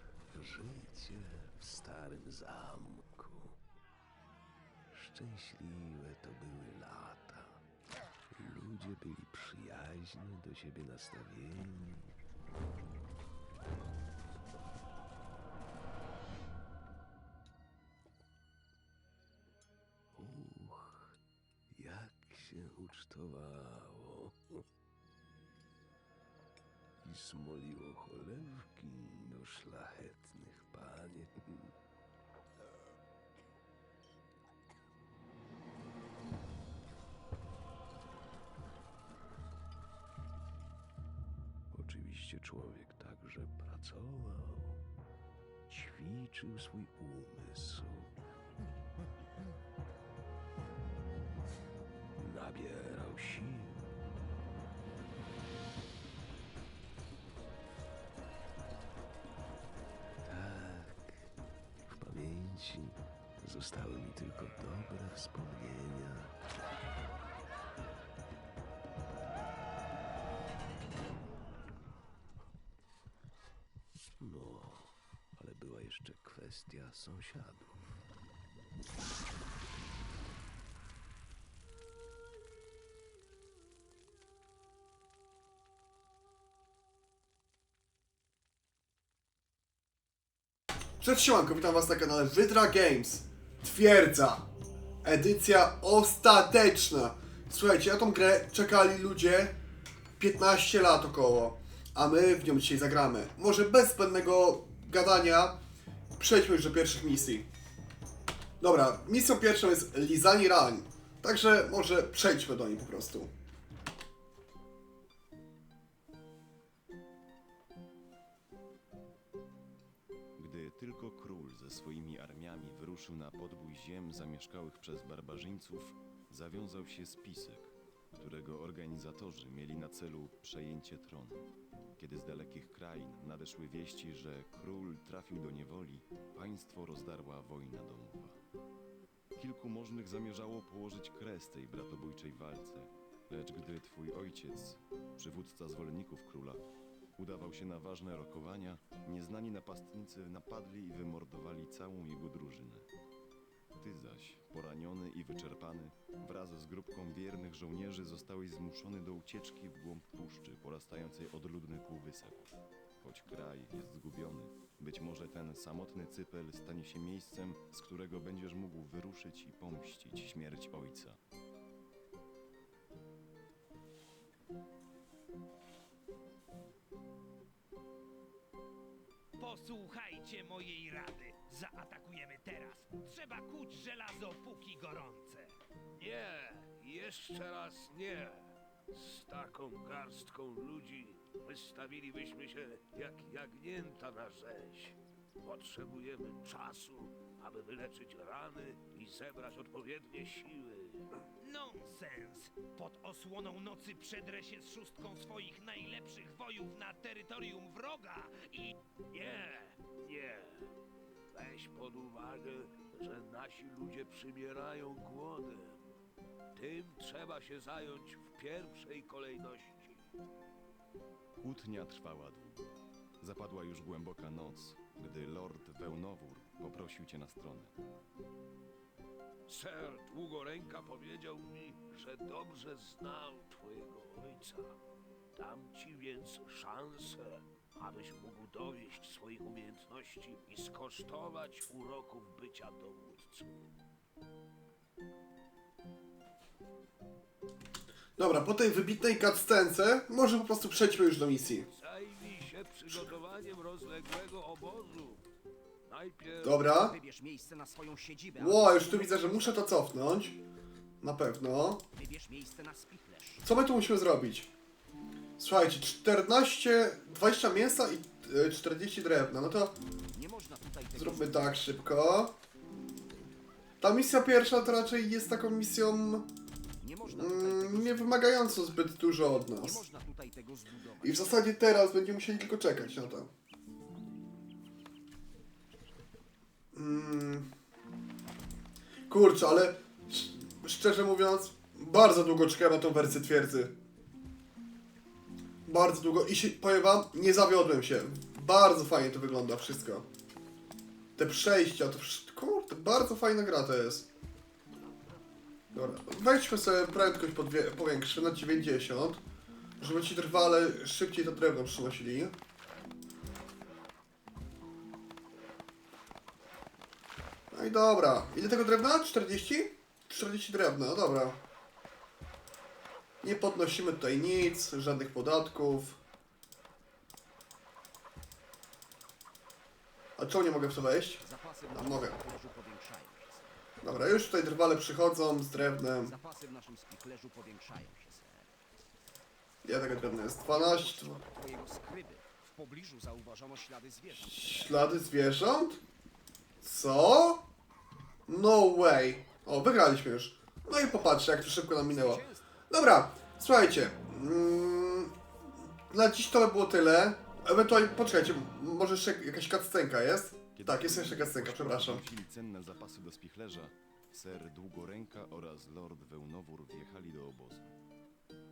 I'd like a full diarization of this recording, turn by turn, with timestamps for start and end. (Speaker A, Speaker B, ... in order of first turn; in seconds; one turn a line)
Speaker A: 0.3-3.6
Speaker A: 4.9-7.6
Speaker A: 8.3-12.1
Speaker A: 20.1-21.1
Speaker A: 21.7-24.6
Speaker A: 27.0-31.7
Speaker B: 41.7-44.5
Speaker A: 41.7-44.8
Speaker B: 45.7-47.9
Speaker A: 45.8-48.1
Speaker A: 52.2-53.9
Speaker A: 60.2-61.3
Speaker A: 61.9-66.3
Speaker A: 74.2-77.7
Speaker C: 91.0-94.4
Speaker C: 95.0-99.5
Speaker C: 100.2-105.6
Speaker C: 106.2-107.5
Speaker C: 108.6-113.3
Speaker D: 120.4-131.4
Speaker D: 132.0-138.4
Speaker D: 139.4-146.7
Speaker D: 147.2-152.9
Speaker D: 153.8-162.5
Speaker D: 163.0-171.2
Speaker E: 179.4-185.6
Speaker B: 186.0-201.1
Speaker E: 201.4-208.7
Speaker B: 209.1-210.7
Speaker B: 211.3-215.8
Speaker B: 216.6-220.1
Speaker D: 221.4-227.7
Speaker B: 229.5-234.8
Speaker B: 235.3-243.7
Speaker C: 248.2-251.7
Speaker B: 251.7-255.2
Speaker B: 255.9-256.7
Speaker C: 256.4-257.0
Speaker F: 256.9-259.0
Speaker C: 258.4-260.4
Speaker C: 261.0-261.8
Speaker F: 262.0-263.4
Speaker C: 263.4-264.5
Speaker C: 265.4-269.8
Speaker F: 270.2-271.3
Speaker C: 270.9-272.3
Speaker C: 273.8-276.3
Speaker F: 276.8-278.0
Speaker C: 277.1-279.9
Speaker F: 279.6-281.0
Speaker C: 281.0-283.3
Speaker C: 286.7-287.5
Speaker C: 289.1-293.7
Speaker C: 295.7-300.1
Speaker C: 301.2-304.1
Speaker C: 305.7-309.2
Speaker C: 309.8-312.3
Speaker C: 317.5-321.4
Speaker C: 323.2-326.0
Speaker C: 330.2-332.2
Speaker F: 331.2-333.3
Speaker C: 333.8-336.2
Speaker F: 336.1-338.4
Speaker C: 339.6-341.2
Speaker F: 340.6-344.5
Speaker C: 344.1-345.8
Speaker C: 346.6-347.4
Speaker C: 348.3-355.1
Speaker C: 355.9-362.0
Speaker D: 360.6-367.7